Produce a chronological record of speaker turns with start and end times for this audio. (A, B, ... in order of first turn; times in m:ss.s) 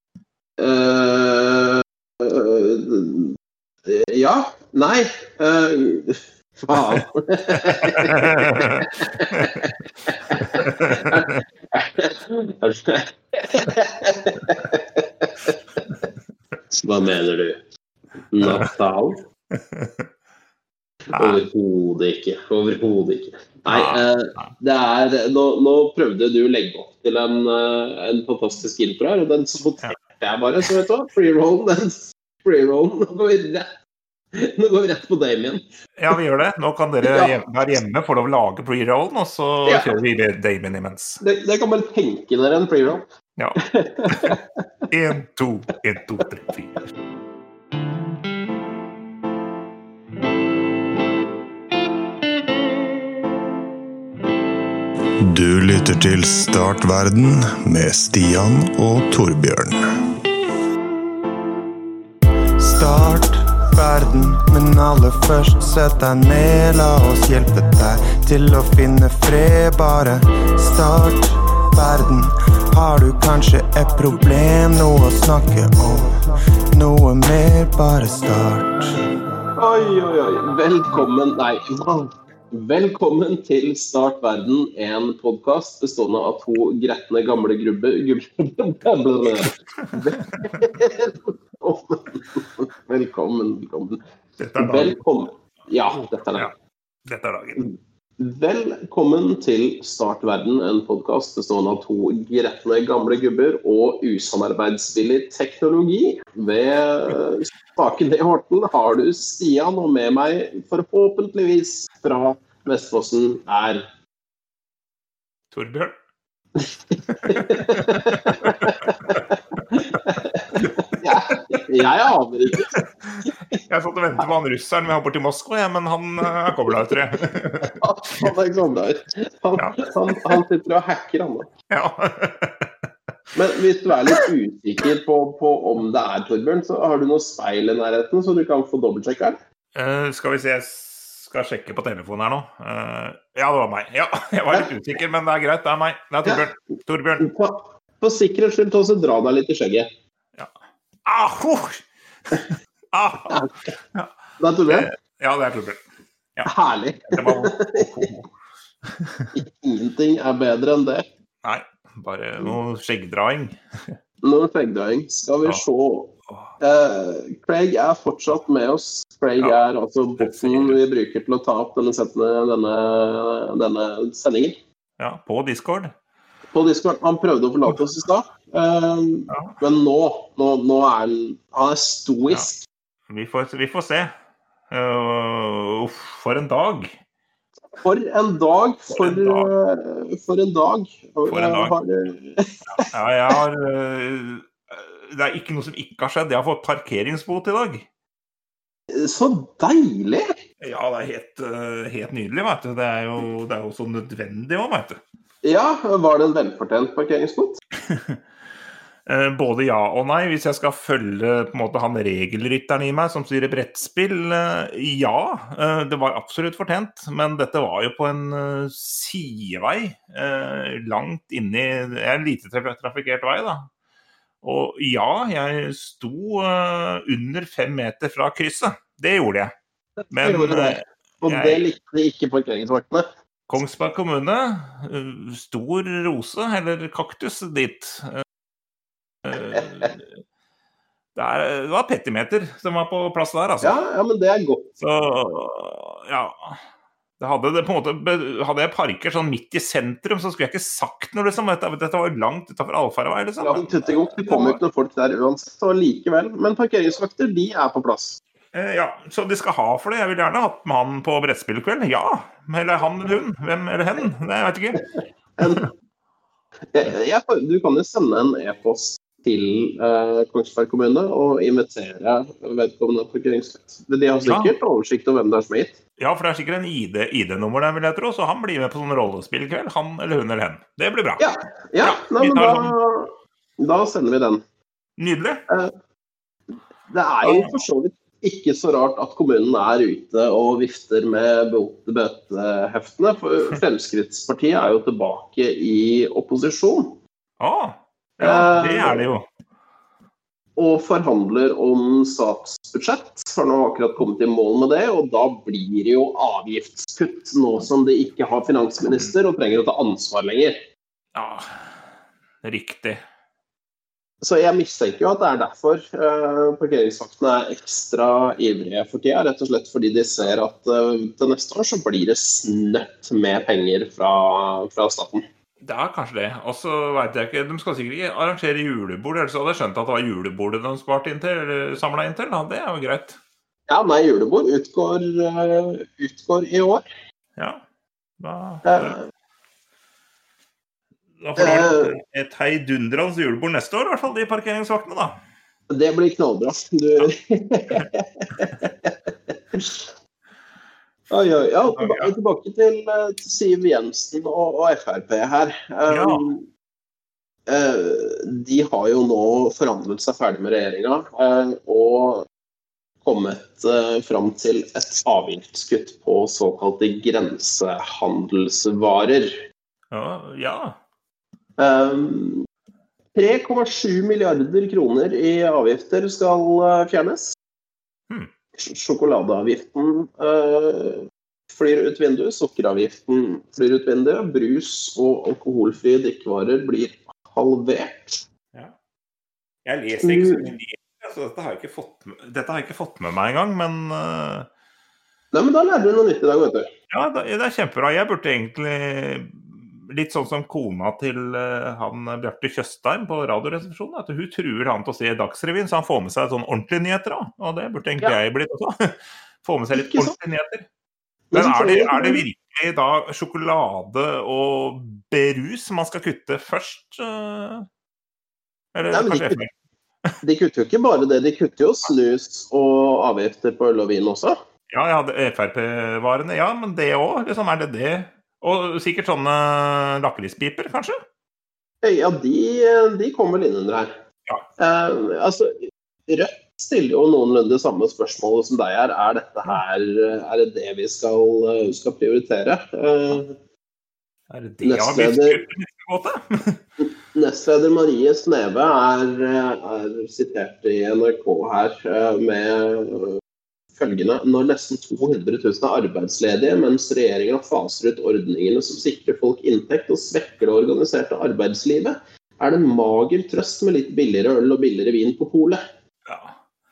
0:00.6-0:03.4 A
0:03.9-0:15.6 A
0:07.5-0:09.7 B
0:10.3-0:11.4 B
0:16.7-0:17.6 A
0:18.3-0:19.2 A
0:18.4-0:18.7 B
0:19.5-0:20.1 B
0:21.1-0:33.7 A
0:21.1-0:21.4 B
0:23.7-0:24.5 B
0:34.3-0:35.6 A
0:36.0-0:41.2 B
0:37.0-0:37.4 A
0:39.6-0:39.9 A
0:41.2-0:43.0 A
0:43.4-0:44.4 B
0:43.6-0:44.6 A
0:44.9-0:46.8 B
0:55.3-0:59.8 C
1:02.6-1:19.0 C
1:19.6-1:34.0 A
1:29.4-1:30.7 B
1:34.4-1:35.0 B
1:34.6-1:36.5 A
1:35.9-1:36.5 B
1:37.0-1:37.7 B
1:37.6-1:53.8 A
1:55.5-1:55.9 B
1:56.6-2:02.7 A
1:57.1-2:00.0 B
2:00.6-2:01.6 B
2:02.7-2:08.3 B
2:03.3-2:03.6 A
2:06.7-2:06.9 A
2:07.6-2:11.5 A
2:09.6-2:10.4 B
2:11.7-2:12.7 B
2:13.3-2:19.4 A
2:19.7-2:27.3 B
2:27.2-2:29.9 A
2:31.0-2:33.4 B
2:33.3-2:33.7 A
2:34.4-2:34.9 A
2:34.7-2:35.8 B
2:36.4-2:37.9 A
2:37.1-2:38.3 B
2:38.8-2:39.3 B
2:39.3-2:41.0 A
2:41.4-2:43.9 B
2:44.2-2:54.6 A
2:50.2-2:50.8 B
2:55.0-2:55.9 B
2:56.5-3:02.6 A
2:59.3-2:59.6 B
3:03.1-3:04.1 B
3:04.7-3:07.0 B
3:07.8-3:12.9 A
3:09.0-3:09.5 B
3:11.2-3:11.7 B
3:12.7-3:17.8 B
3:18.9-3:20.3 A
3:20.6-3:25.0 B
3:25.4-3:27.6 A
3:27.9-3:28.2 B
3:29.1-3:43.7 B
3:44.4-3:49.5 B
3:50.1-3:51.6 B
3:50.2-3:53.1 A
3:53.5-3:58.2 B
3:59.2-4:00.0 B
4:01.1-4:03.8 B
4:03.6-4:04.7 A
4:04.8-4:06.6 B
4:07.2-4:14.6 B
4:13.4-4:18.2 A
4:18.5-4:24.8 B
4:25.4-4:25.7 A
4:26.7-4:35.8 A
4:34.2-4:34.5 B
4:36.0-4:41.2 B
4:41.2-4:44.4 A
4:41.8-4:42.8 B
4:45.0-4:45.4 B
4:46.9-4:57.0 A
4:47.2-4:47.6 B
4:57.4-4:59.2 B
4:58.2-4:59.1 A
5:00.6-5:10.6 A
5:11.1-5:11.8 B
5:12.4-5:13.0 B
5:14.2-5:25.2 A
5:25.6-5:33.2 B
5:33.7-5:36.8 A
5:38.2-5:39.0 B
5:38.6-5:39.0 A
5:41.2-5:45.2 B
5:41.4-5:42.0 A
5:45.7-5:49.9 A
5:51.1-5:56.4 A
5:51.7-5:52.1 B
5:55.9-5:56.3 B
5:57.5-6:02.3 A
6:03.0-6:09.4 A
6:09.9-6:10.8 B
6:11.6-6:12.4 A
6:13.1-6:17.3 A
6:18.6-6:28.2 A
6:29.6-6:34.5 B
6:30.0-6:30.5 A
6:35.3-6:36.7 A
6:36.9-6:50.6 B
6:49.7-6:50.1 A
6:51.3-6:52.2 A
6:51.3-6:57.6 B
6:58.7-6:59.5 B
6:58.9-6:59.4 A
7:00.2-7:04.4 A
7:04.7-7:11.0 B
7:11.8-7:13.9 A
7:14.6-7:23.3 A
7:24.3-7:26.6 B
7:24.6-7:25.4 A
7:26.8-7:33.2 A
7:33.8-7:45.6 A
7:46.0-7:46.3 B